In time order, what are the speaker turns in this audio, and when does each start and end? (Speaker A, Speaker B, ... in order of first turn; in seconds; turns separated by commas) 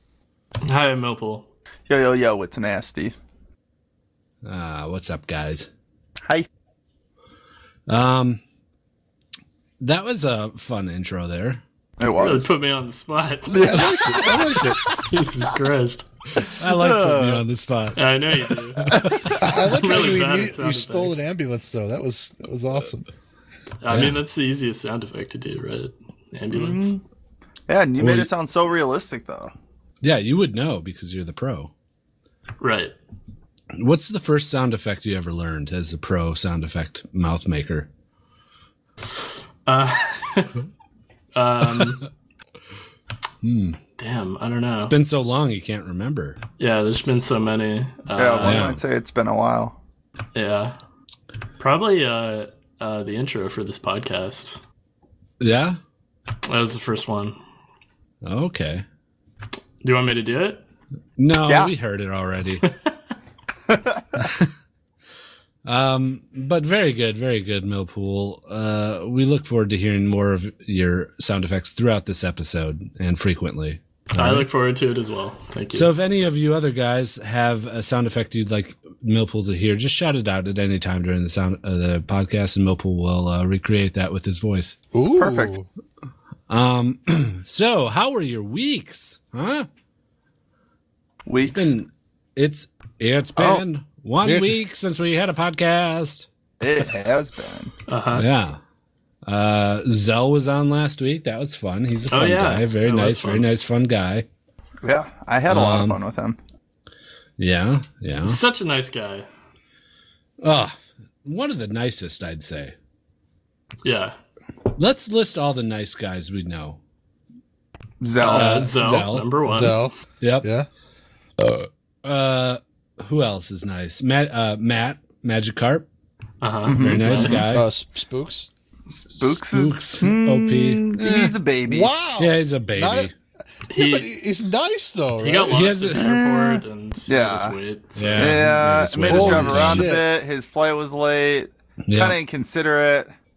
Speaker A: 0.6-1.5, Speaker B: 1.9-3.1, Speaker C: 4.4-5.7, Speaker C: 7.9-8.4, Speaker C: 9.8-11.6, Speaker B: 12.0-12.5, Speaker A: 12.2-14.0, Speaker B: 13.5-14.5, Speaker D: 13.5-14.8, Speaker A: 14.9-16.1, Speaker C: 16.4-18.0, Speaker B: 16.6-17.4, Speaker A: 17.9-21.2, Speaker C: 18.8-19.3, Speaker B: 18.9-19.3, Speaker D: 19.4-23.0, Speaker A: 23.8-27.0, Speaker C: 23.9-24.2, Speaker B: 26.5-27.0, Speaker B: 27.7-29.5, Speaker C: 28.0-28.3, Speaker C: 30.0-31.7, Speaker A: 32.6-32.9, Speaker C: 33.7-37.9, Speaker A: 39.6-40.5, Speaker A: 41.3-42.1, Speaker C: 43.4-43.8, Speaker A: 44.0-44.9, Speaker C: 44.8-46.4, Speaker A: 46.6-48.8, Speaker B: 48.1-49.8, Speaker C: 48.4-48.8, Speaker A: 50.3-50.7, Speaker A: 51.6-54.6, Speaker C: 55.4-55.8, Speaker A: 56.5-57.4, Speaker C: 58.2-58.8, Speaker A: 59.8-60.6, Speaker C: 61.2-62.6, Speaker B: 63.7-64.0, Speaker C: 64.2-64.5, Speaker C: 65.6-74.5, Speaker A: 74.1-75.9, Speaker C: 75.7-84.8, Speaker D: 84.9-85.7, Speaker B: 85.2-85.5, Speaker C: 86.5-89.7, Speaker B: 91.2-91.7, Speaker C: 91.5-96.3, Speaker B: 93.4-93.6, Speaker D: 94.2-94.6, Speaker B: 96.6-97.7, Speaker A: 97.9-98.2, Speaker C: 98.1-98.6, Speaker C: 99.2-104.3, Speaker A: 102.1-103.5, Speaker B: 104.8-106.4, Speaker C: 105.5-106.0, Speaker C: 107.4-108.4, Speaker A: 108.2-109.3, Speaker C: 110.4-112.7, Speaker A: 113.8-114.2, Speaker C: 114.7-116.8, Speaker B: 118.0-118.7, Speaker A: 118.2-119.8, Speaker C: 118.3-119.3, Speaker D: 119.5-120.7, Speaker C: 120.2-120.5, Speaker C: 122.0-125.9, Speaker A: 126.4-127.4, Speaker B: 126.7-127.5, Speaker C: 126.8-127.7, Speaker D: 127.3-128.5, Speaker B: 128.9-132.0, Speaker C: 129.1-131.4, Speaker D: 131.7-133.1, Speaker C: 132.2-133.1, Speaker A: 133.7-134.1, Speaker D: 133.7-135.7, Speaker A: 135.2-138.5, Speaker C: 135.5-136.2, Speaker B: 137.1-137.5, Speaker C: 137.9-139.9, Speaker B: 138.1-143.1, Speaker D: 139.0-140.0, Speaker C: 141.8-142.2